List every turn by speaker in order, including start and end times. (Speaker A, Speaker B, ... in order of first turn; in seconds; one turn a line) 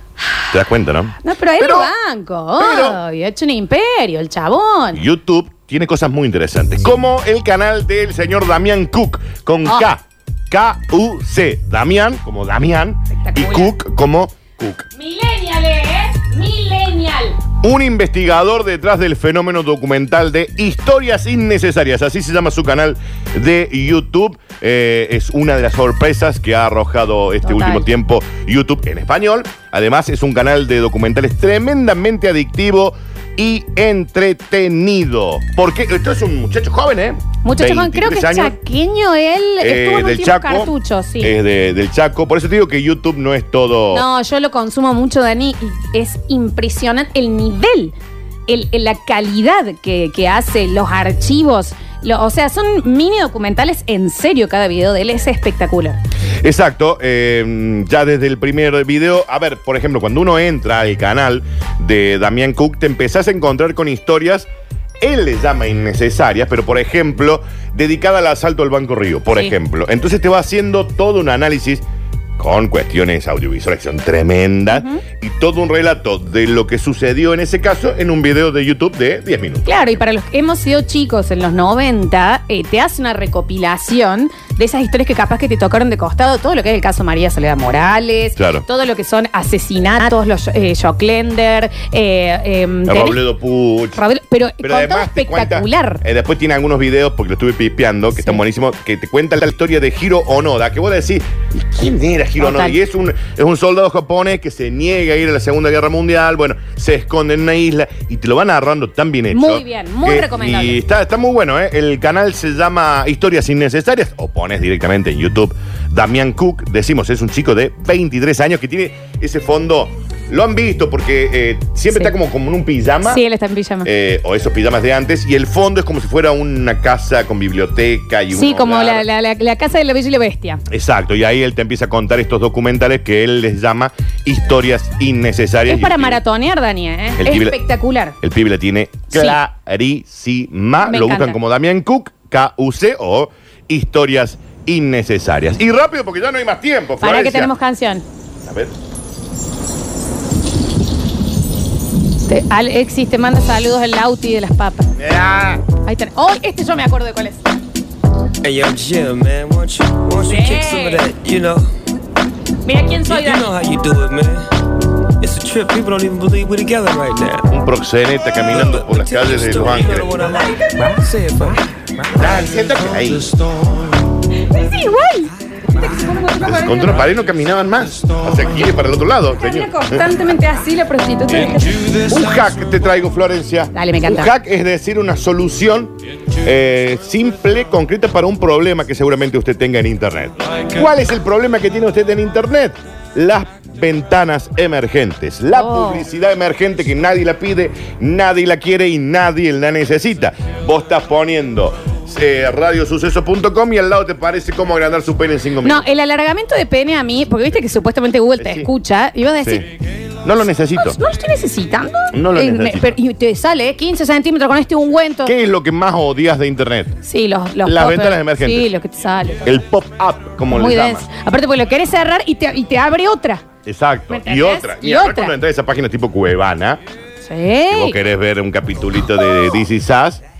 Speaker A: 0.5-1.9
Speaker B: 1.2-5.0
Speaker A: 2.6-3.0
Speaker A: 4.9-14.8
Speaker B: 13.1-13.7
Speaker B: 14.9-17.4
Speaker A: 17.6-38.5
Speaker B: 27.4-27.9
Speaker B: 37.4-41.3
Speaker A: 39.6-44.0
Speaker B: 43.9-47.9
Speaker B: 48.5-56.0
Speaker A: 56.4-64.5
Speaker A: 65.0-71.8
Speaker A: 72.4-79.7
Speaker B: 74.7-75.0
Speaker B: 79.6-93.2
Speaker A: 88.3-88.6
Speaker A: 92.8-94.0
Speaker B: 94.0-96.0
Speaker A: 94.6-123.2
Speaker B: 102.4-102.8
Speaker B: 109.3-110.8
Speaker B: 123.0-123.9
Speaker A: 123.8-129.1
Speaker B: 128.3-130.6
Speaker A: 130.7-136.2
Speaker B: 135.7-138.2
Speaker A: 137.2-137.6
Speaker A: 138.2-147.5
Speaker B: 139.1-139.4
Speaker B: 140.8-141.4
Speaker B: 147.0-148.0
Speaker A: 148.4-148.7
Speaker B: 152.3-154.9
Speaker A: 155.0-155.7
Speaker B: 155.7-157.4
Speaker C: 158.4-161.7
Speaker B: 160.2-161.1
Speaker B: 162.6-163.5
Speaker C: 163.0-164.5
Speaker C: 165.2-167.5
Speaker A: 167.5-170.2
Speaker C: 168.5-172.3
Speaker B: 170.3-170.9
Speaker A: 172.1-173.3
Speaker C: 172.9-173.9
Speaker B: 174.4-177.0
Speaker A: 176.4-180.1
Speaker B: 179.4-181.9
Speaker A: 181.9-205.8
Speaker B: 183.7-184.3
Speaker B: 195.5-196.1
Speaker B: 205.6-209.7
Speaker A: 208.4-208.7
Speaker A: 209.4-209.7
Speaker A: 210.2-211.0
Speaker B: 210.8-215.3
Speaker A: 212.1-212.9
Speaker A: 215.2-216.9
Speaker B: 217.0-219.6
Speaker A: 217.6-218.7
Speaker A: 219.4-221.1
Speaker B: 220.5-223.4
Speaker A: 223.6-226.8
Speaker B: 224.1-225.3
Speaker B: 227.2-228.0
Speaker A: 227.7-230.2